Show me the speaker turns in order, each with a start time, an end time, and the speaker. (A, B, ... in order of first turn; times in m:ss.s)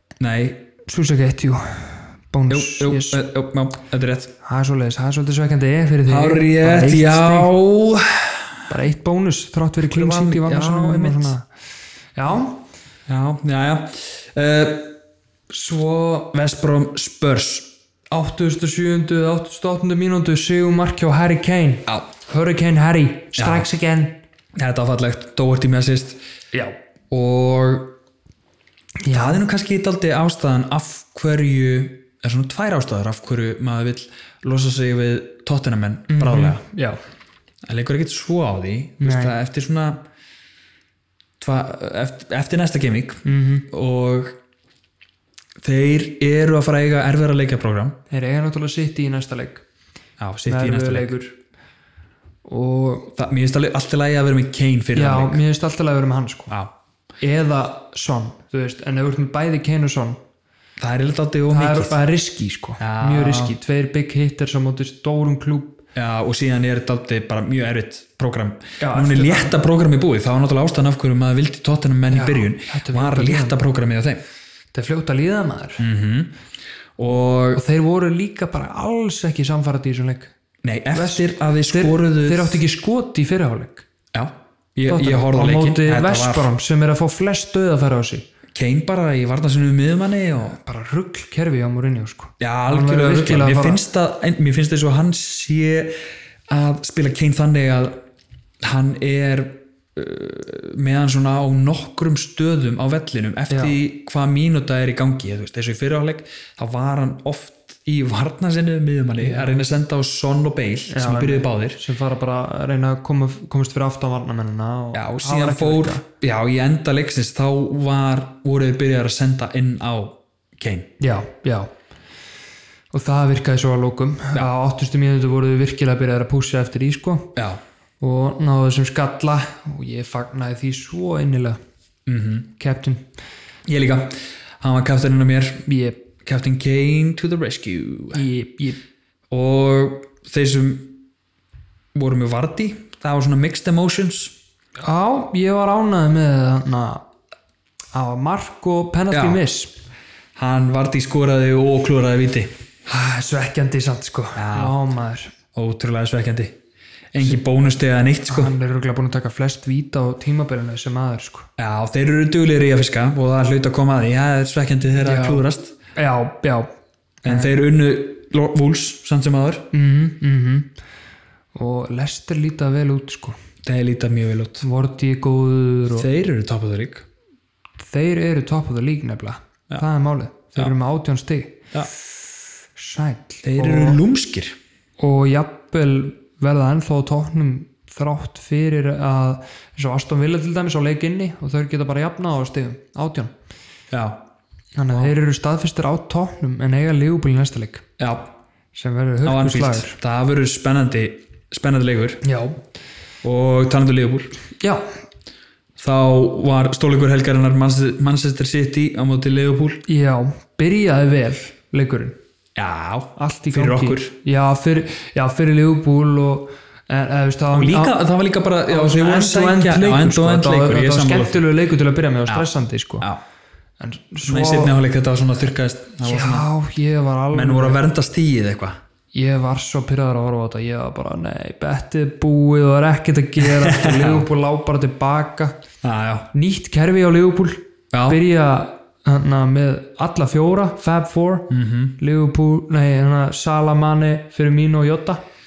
0:00.2-0:00.7 A
0:00.9-0:03.2 B
0:02.5-0:04.3 A
0:04.4-0:07.5 B
0:06.1-0:08.5 A
0:08.7-0:11.4 B
0:09.8-0:11.4 A
0:12.2-0:12.6 B
0:13.1-0:15.0 A
0:15.5-0:17.7 A
0:18.1-0:24.2 B
0:23.4-0:23.7 A
0:24.6-0:26.2 A
0:27.1-0:27.9 A
0:29.0-0:29.4 B
0:29.1-0:36.6 A
0:36.1-0:37.0 B
0:37.6-0:40.0 A
0:39.0-0:39.3 B
0:41.4-0:44.4 A
0:43.2-0:43.7 B
0:45.6-0:48.0 A
0:48.1-0:49.6 B
0:50.2-0:51.2 A
0:50.5-0:51.4 B
0:52.4-0:53.1 B
0:53.1-0:55.4 A
0:54.9-0:56.6 B
0:57.2-1:00.2 B
1:00.8-1:02.0 A
1:01.5-1:05.8 B
1:02.8-1:03.6 A
1:06.0-1:14.2 A
1:08.8-1:09.6 B
1:12.1-1:13.6 B
1:14.7-1:15.9 B
1:15.8-1:16.3 A
1:17.0-1:17.6 A
1:17.5-1:20.3 B
1:20.6-1:22.6 A
1:20.9-1:23.9 B
1:24.1-1:26.5 A
1:24.9-1:28.3 B
1:28.5-1:30.6 A
1:30.5-1:33.8 B
1:32.4-1:38.0 A
1:38.6-1:51.8 A
1:43.5-1:43.8 B
1:49.2-1:49.6 B
1:50.9-1:56.0 B
1:54.9-2:00.9 A
2:01.0-2:01.7 B
2:02.9-2:07.4 B
2:07.4-2:07.6 A
2:08.0-2:11.6 B
2:12.1-2:12.5 A
2:12.6-2:13.1 B
2:13.7-2:15.7 A
2:15.7-2:16.0 B
2:16.2-2:18.3 A
2:18.1-2:18.8 B
2:19.3-2:21.0 A
2:22.0-2:24.4 A
2:24.8-2:27.0 B
2:27.9-2:29.7 B
2:29.1-2:29.4 A
2:30.4-2:32.5 A
2:32.9-2:35.3 B
2:34.4-2:34.8 A
2:35.5-2:36.6 A
2:37.1-2:38.5 A
2:38.3-2:41.5 B
2:41.6-2:45.8 A
2:45.0-2:46.7 B
2:47.2-2:47.5 B
2:47.2-2:49.7 A
2:49.7-2:50.7 B
2:51.6-2:53.4 B
2:53.6-2:54.7 A
2:54.6-2:56.1 B
2:55.9-2:57.1 A
2:57.8-3:01.7 B
3:02.8-3:04.0 B
3:03.4-3:04.6 A
3:05.0-3:13.3 B
3:13.9-3:14.2 A
3:14.8-3:17.9 B
3:18.0-3:18.3 A
3:18.7-3:20.0 B
3:19.2-3:22.2 A
3:22.2-3:22.6 B
3:23.2-3:24.3 A
3:24.6-3:24.8 B
3:25.8-3:29.8 A
3:29.9-3:32.2 B
3:32.6-3:34.1 A
3:33.2-3:38.0 B
3:37.5-3:41.5 A
3:38.7-3:43.1 B
3:43.8-3:44.8 B
3:44.2-3:46.5 A
3:46.0-3:47.8 B
3:47.3-3:48.8 A
3:49.1-3:55.6 B
3:53.4-3:54.3 A
3:55.8-3:56.3 A
3:56.3-4:05.2 B
3:57.9-3:58.2 A
4:01.5-4:02.0 A